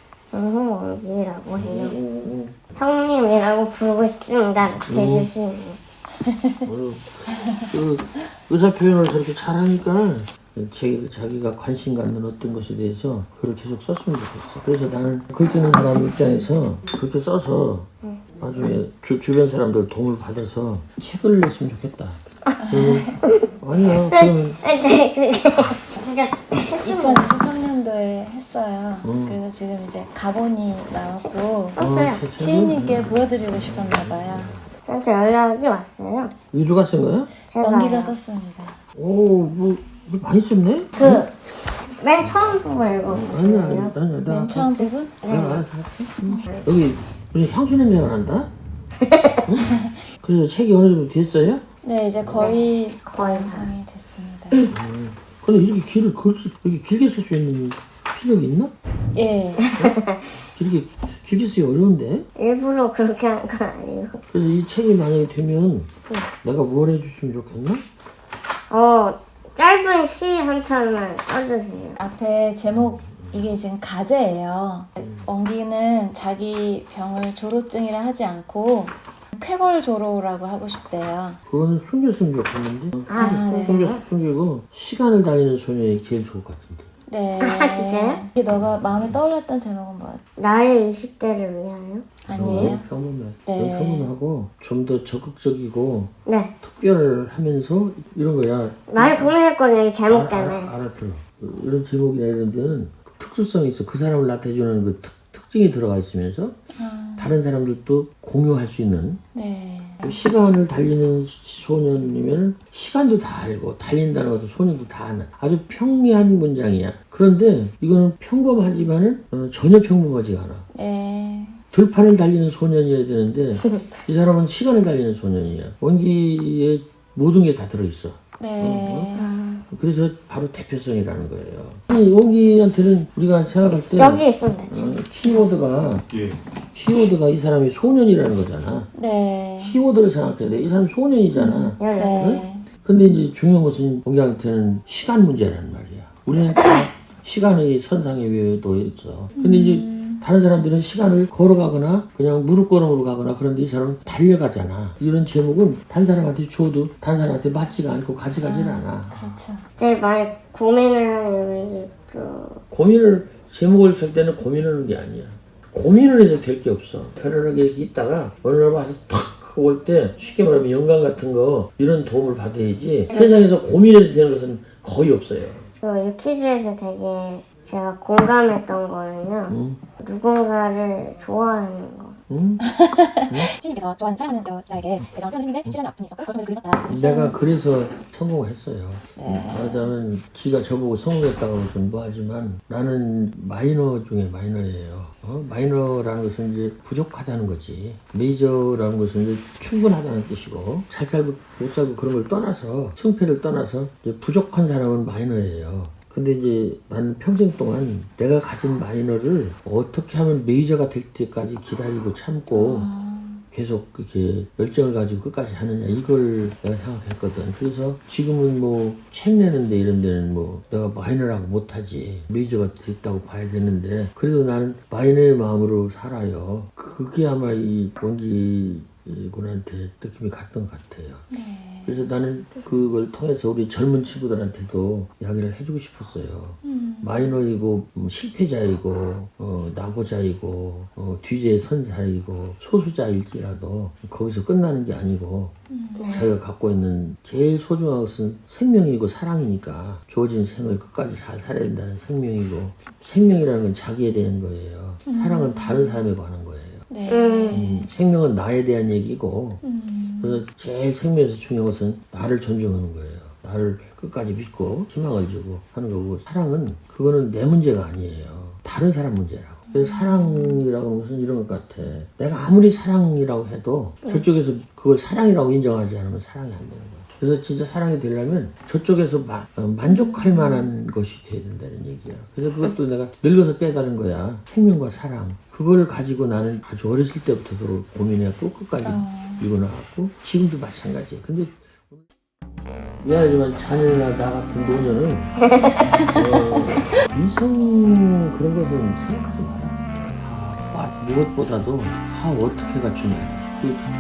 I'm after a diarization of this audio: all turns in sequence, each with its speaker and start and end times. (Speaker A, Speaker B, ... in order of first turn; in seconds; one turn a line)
Speaker A: 0.3-1.9
Speaker B: 1.5-2.6
Speaker A: 2.8-5.8
Speaker B: 4.8-5.3
Speaker B: 6.6-24.6
Speaker C: 22.6-23.1
Speaker A: 24.1-27.3
Speaker C: 26.8-31.8
Speaker B: 29.0-29.4
Speaker A: 31.7-32.3
Speaker B: 31.8-34.7
Speaker C: 32.4-34.5
Speaker A: 34.9-36.4
Speaker B: 36.5-37.3
Speaker A: 37.5-38.2
Speaker C: 37.6-38.8
Speaker B: 38.9-41.3
Speaker A: 41.0-41.3
Speaker A: 41.9-44.0
Speaker B: 43.1-48.5
Speaker C: 44.3-45.2
Speaker A: 45.2-45.7
Speaker A: 49.0-49.5
Speaker B: 49.5-51.6
Speaker C: 51.8-54.6
Speaker B: 52.2-52.5
Speaker A: 52.4-53.7
Speaker B: 54.6-58.7
Speaker C: 59.1-59.7
Speaker A: 59.6-60.3
Speaker B: 60.5-62.3
Speaker A: 62.4-64.2
Speaker B: 64.3-65.9
Speaker B: 66.4-67.8
Speaker A: 68.7-72.0
Speaker C: 72.0-81.4
Speaker B: 72.7-73.5
Speaker B: 75.0-75.3
Speaker B: 81.5-86.9
Speaker A: 83.1-84.0
Speaker C: 83.1-83.9
Speaker C: 87.1-90.2
Speaker A: 87.4-88.2
Speaker B: 88.6-89.2
Speaker A: 90.4-92.8
Speaker C: 92.3-92.8
Speaker B: 92.3-99.3
Speaker C: 93.5-94.1
Speaker A: 96.3-96.5
Speaker A: 98.9-100.7
Speaker B: 100.1-106.6
Speaker C: 106.8-107.3
Speaker B: 107.2-109.2
Speaker C: 109.3-110.2
Speaker B: 110.0-120.7
Speaker C: 120.7-121.6
Speaker B: 121.7-129.2
Speaker C: 128.4-129.3
Speaker A: 129.2-129.7
Speaker B: 129.7-138.9
Speaker A: 133.7-135.1
Speaker C: 138.9-139.8
Speaker B: 139.6-159.4
Speaker C: 141.3-142.7
Speaker A: 141.8-142.4
Speaker C: 149.3-150.2
Speaker C: 158.4-159.7
Speaker A: 159.8-162.6
Speaker B: 162.7-175.7
Speaker A: 175.8-182.2
Speaker B: 179.5-179.8
Speaker B: 182.3-182.7
Speaker C: 182.6-187.4
Speaker B: 186.9-212.9
Speaker C: 189.2-189.9
Speaker C: 212.5-213.4
Speaker B: 213.5-231.3
Speaker C: 231.3-232.1
Speaker B: 231.8-245.6
Speaker C: 236.6-237.3
Speaker C: 245.7-246.3
Speaker A: 246.0-246.3
Speaker B: 246.1-256.9
Speaker C: 255.1-256.1
Speaker C: 256.9-257.9
Speaker A: 257.1-257.6
Speaker B: 257.5-259.6
Speaker C: 259.6-260.4
Speaker B: 260.2-291.6
Speaker C: 269.7-270.6
Speaker C: 279.9-280.7
Speaker C: 288.8-289.5
Speaker B: 293.0-295.4
Speaker A: 295.5-295.8
Speaker C: 295.9-296.6
Speaker B: 296.1-303.9